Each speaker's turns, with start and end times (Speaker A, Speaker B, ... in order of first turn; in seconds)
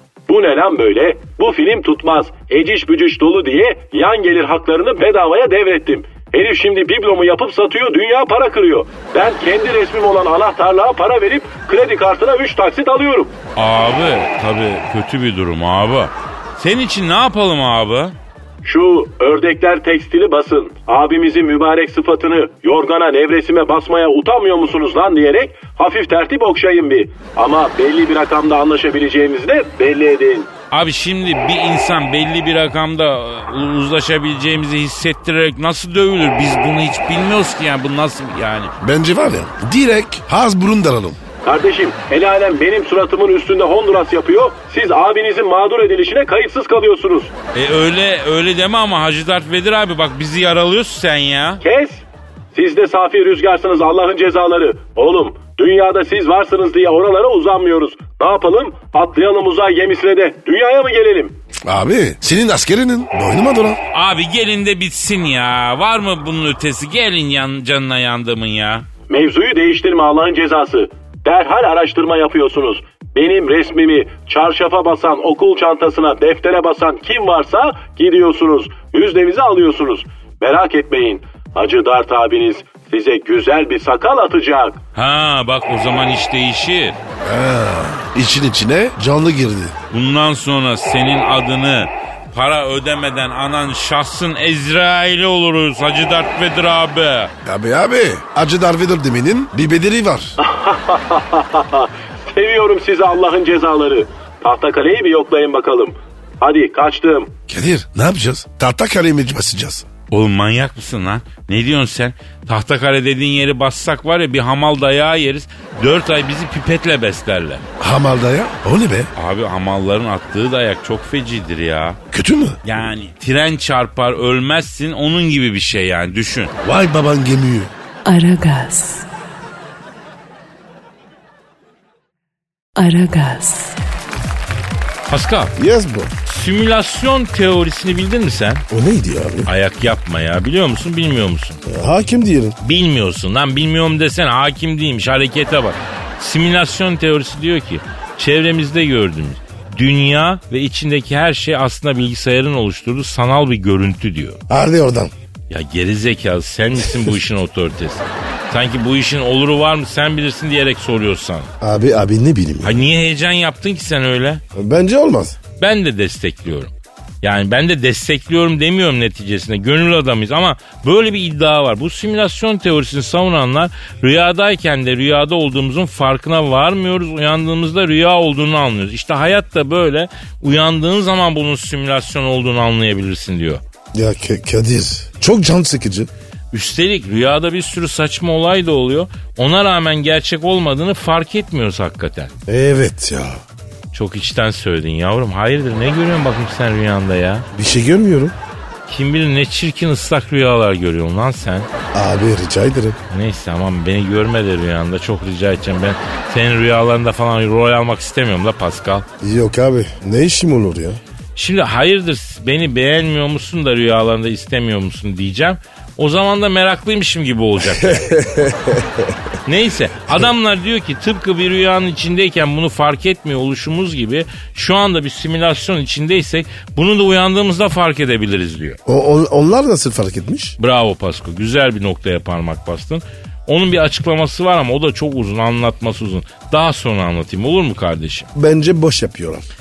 Speaker A: 0.3-13.3, 18.6-30.5, 41.4-47.3, 51.6-61.3, 69.1-84.8, 100.4-107.3
Speaker B: 13.6-18.1, 30.7-38.7, 47.5-51.6, 63.9-68.9, 84.9-87.0, 89.9-97.3, 110.1-117.6, 119.1-122.0, 122.6-126.5, 135.1-135.5, 136.2-138.6, 139.4-141.6, 142.6-154.4, 155.5-161.5, 162.6-164.4, 165.6-183.6, 186.5-192.3, 193.9-197.5, 198.9-201.7, 203.1-209.1, 211.3-218.2, 219.4-228.8, 230.6-238.3
Speaker C: 38.8-41.2, 61.6-63.8, 87.2-89.8, 97.4-100.3, 107.5-109.8, 117.8-119.1, 122.1-122.6, 126.6-127.7, 135.6-136.1, 138.7-139.5, 141.7-142.6, 154.5-155.1, 161.6-162.8, 164.5-165.4, 183.9-186.1, 192.5-193.4, 197.5-198.3, 201.9-203.0, 209.2-211.0, 217.7-219.2, 228.8-230.6, 238.3-239.4
Speaker D: 128.0-129.1, 132.8-133.8